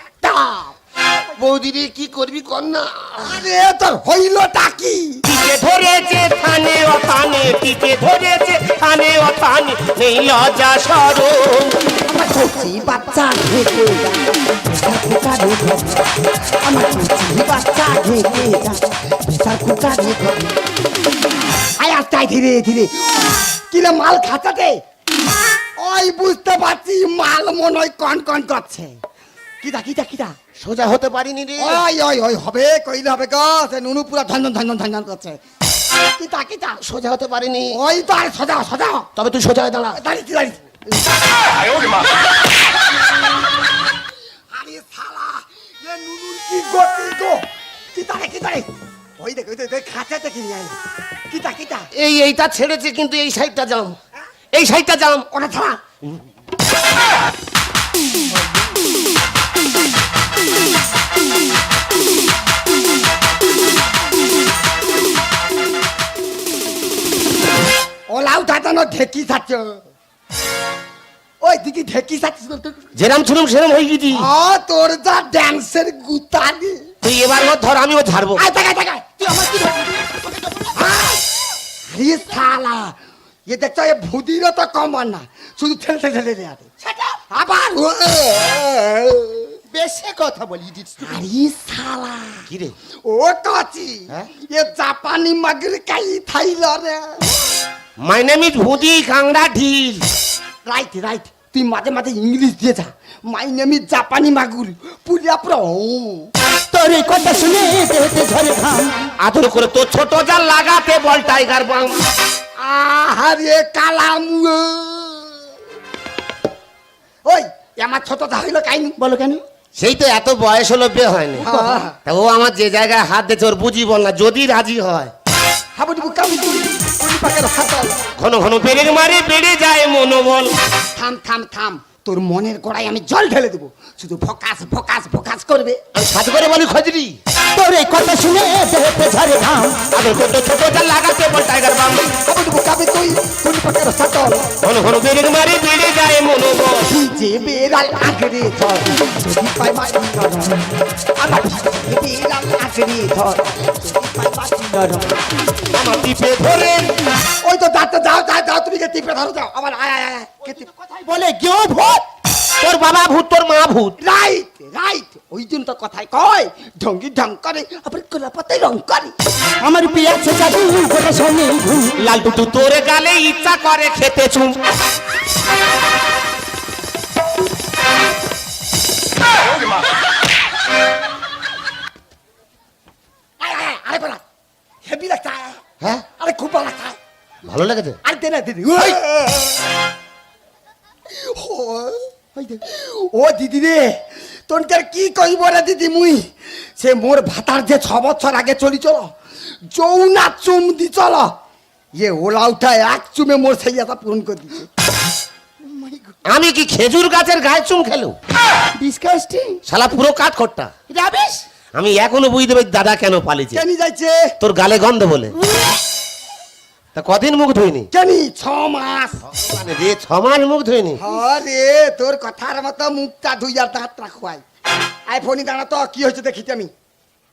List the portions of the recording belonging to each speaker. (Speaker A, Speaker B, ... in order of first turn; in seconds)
Speaker A: 0.2-0.7, 3.2-5.2, 12.1-16.1, 16.6-20.6, 21.8-24.8, 25.8-29.0, 29.6-30.4, 31.6-35.4, 36.2-36.8, 37.7-39.1, 39.9-40.8, 44.5-48.7, 49.2-50.8, 51.3-51.9, 55.3-55.8, 68.1-69.9, 71.4-72.8, 74.1-76.8, 78.3-79.2, 80.7-81.2, 81.9-89.5, 91.0-92.5, 93.0-97.3, 100.6-106.3, 112.6-115.4, 117.2-119.0, 121.4-122.0, 125.8-128.0, 130.9-135.8, 142.2-144.5, 146.9-155.3, 157.4-160.7, 164.0-169.1, 183.4-184.2, 184.8-185.6, 186.2-187.0, 188.0-189.5, 191.1-192.1, 192.6-199.1, 199.7-201.3, 202.0-204.7, 213.5-214.3, 217.9-219.2, 221.0-224.4, 225.1-226.7
Speaker B: 1.4-3.4, 5.2-11.8, 30.6-31.8, 36.8-37.8, 39.1-40.0, 51.9-54.0, 54.5-55.3, 73.0-74.3, 77.0-78.4, 92.5-92.7, 98.0-100.1, 109.2-112.0, 119.8-121.5, 122.0-125.1, 128.2-130.5, 135.9-137.2, 139.9-142.1, 144.6-146.9, 155.7-156.9, 162.6-163.9, 172.0-174.6, 185.8-186.1, 187.4-188.0, 206.3-208.2, 209.7-210.7, 211.8-213.6, 214.4-215.3, 216.9-217.9, 219.3-221.0
Speaker C: 79.2-81.0, 89.7-91.2, 106.7-108.9, 119.0-119.4, 121.5-121.8, 137.5-139.8, 160.7-162.0, 169.6-172.1, 192.3-192.6, 205.6-206.1, 208.8-209.6, 210.9-211.4, 215.3-215.8